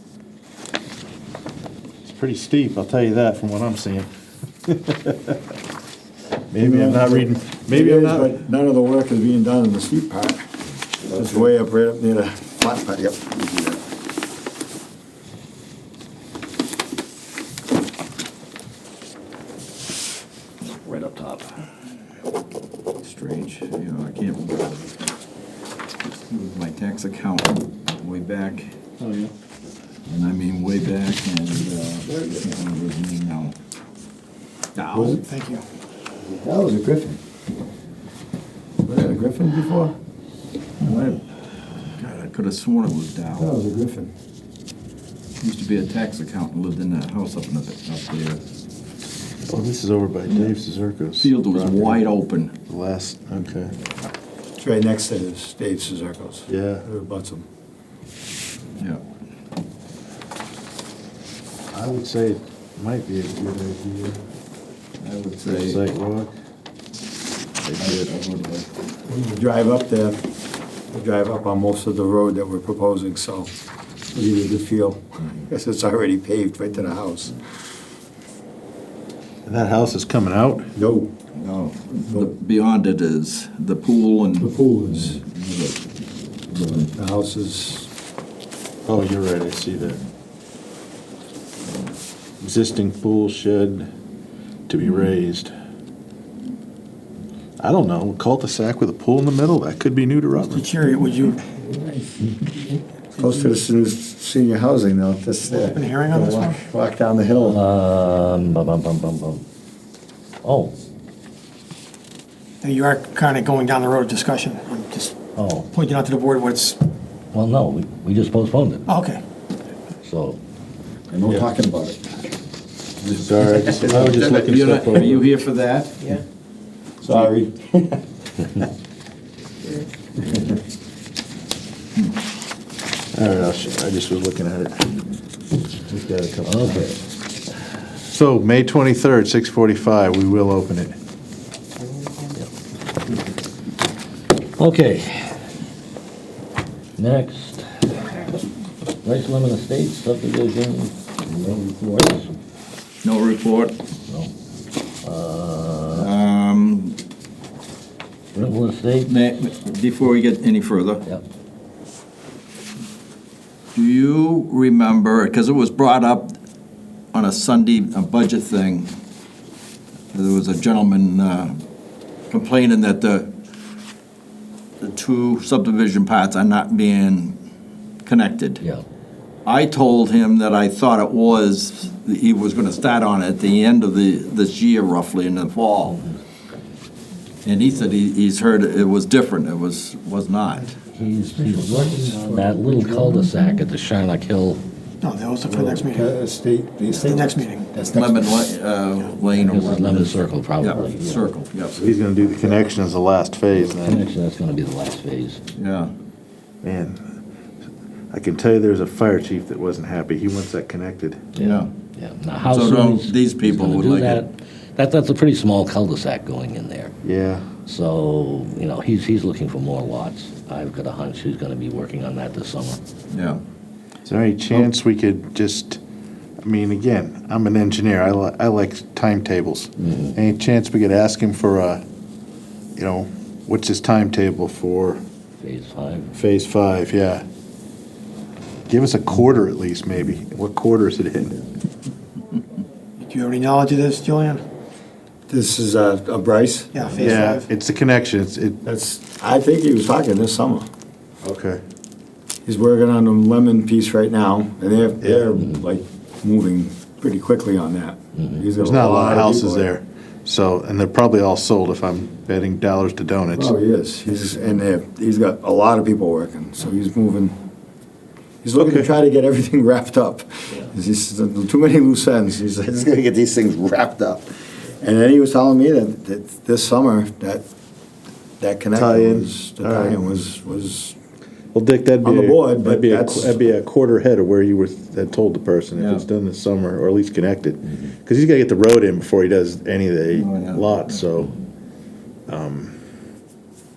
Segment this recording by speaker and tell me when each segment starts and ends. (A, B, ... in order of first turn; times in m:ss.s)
0:02.0-0:04.1 A
0:04.6-0:05.4 A
0:06.5-0:08.3 A
0:06.6-0:10.4 B
0:11.0-0:13.8 B
0:20.6-0:21.6 C
0:23.0-0:25.1 D
0:26.3-0:28.7 D
0:30.1-0:33.5 D
0:32.1-0:32.5 B
0:34.8-0:35.6 E
0:34.9-0:35.2 B
0:36.2-0:37.2 B
0:38.8-0:39.9 B
0:40.8-0:41.2 D
0:41.9-0:43.5 D
0:43.3-0:44.1 B
0:45.4-0:48.4 D
0:49.5-0:52.1 A
0:50.3-0:50.5 D
0:51.2-0:52.5 D
0:52.7-0:53.7 A
0:54.6-0:57.4 B
0:56.5-0:56.8 A
1:01.7-1:04.2 A
1:05.0-1:05.8 D
1:05.4-1:06.3 A
1:07.6-1:08.1 A
1:07.8-1:08.7 D
1:09.1-1:10.2 B
1:10.9-1:13.5 B
1:14.1-1:17.4 B
1:19.4-1:20.7 A
1:20.7-1:21.1 B
1:21.4-1:25.8 D
1:24.4-1:25.2 B
1:26.5-1:26.9 D
1:26.9-1:27.9 B
1:28.8-1:30.0 A
1:32.4-1:33.9 A
1:34.7-1:35.5 A
1:37.6-1:40.7 A
1:40.4-1:41.5 E
1:41.5-1:42.4 B
1:43.2-1:47.6 B
1:45.5-1:46.6 E
1:47.4-1:49.4 C
1:50.4-1:50.7 C
1:52.6-1:55.2 E
1:55.3-1:55.7 C
1:55.7-1:56.8 E
1:57.3-1:58.9 C
1:58.9-1:59.2 E
2:00.0-2:00.4 C
2:01.1-2:02.0 B
2:03.1-2:05.2 A
2:03.1-2:04.2 B
2:03.7-2:06.2 D
2:07.0-2:08.0 B
2:13.1-2:15.0 A
2:15.9-2:16.8 A
2:16.4-2:17.0 C
2:18.1-2:21.0 A
2:24.6-2:25.3 A
2:27.0-2:28.1 C
2:29.0-2:32.2 C
2:31.4-2:32.0 B
2:33.0-2:33.8 D
2:35.0-2:36.1 C
2:35.9-2:37.0 D
2:38.3-2:39.1 C
2:39.1-2:41.0 D
2:43.7-2:46.3 D
2:47.1-2:48.9 D
2:50.1-2:51.6 D
2:52.3-2:53.3 D
2:54.8-2:57.4 D
2:58.0-2:58.6 D
2:59.4-3:06.0 D
3:07.4-3:10.7 D
3:10.9-3:14.6 C
3:11.4-3:13.2 B
3:15.0-3:16.1 E
3:15.5-3:18.5 B
3:17.0-3:17.7 E
3:17.9-3:21.8 D
3:19.4-3:21.2 C
3:21.8-3:24.0 A
3:23.7-3:25.4 C
3:25.5-3:25.9 D
3:26.6-3:27.2 A
3:28.1-3:31.2 A
3:31.4-3:31.7 D
3:31.4-3:36.9 C
3:32.4-3:34.3 D
3:37.0-3:37.5 A
3:37.6-3:42.8 C
3:43.1-3:43.4 D
3:44.0-3:45.8 A
3:46.4-3:51.8 A
3:52.8-3:55.0 A
3:55.4-3:56.1 C
3:56.1-3:57.2 A
3:58.7-4:01.4 A
4:03.0-4:04.4 E
4:05.3-4:07.2 B
4:06.7-4:07.5 E
4:07.0-4:08.6 A
4:08.6-4:10.7 B
4:11.2-4:11.6 A
4:12.4-4:19.7 B
4:15.0-4:15.3 A
4:18.6-4:23.5 A
4:23.3-4:27.4 B
4:28.4-4:37.4 B
4:28.6-4:28.9 A
4:38.4-4:40.9 B
4:38.7-4:40.0 A
4:41.5-4:51.3 A
4:42.0-4:43.4 B
4:45.7-4:46.0 D
4:50.1-4:51.0 D
4:52.3-4:52.8 A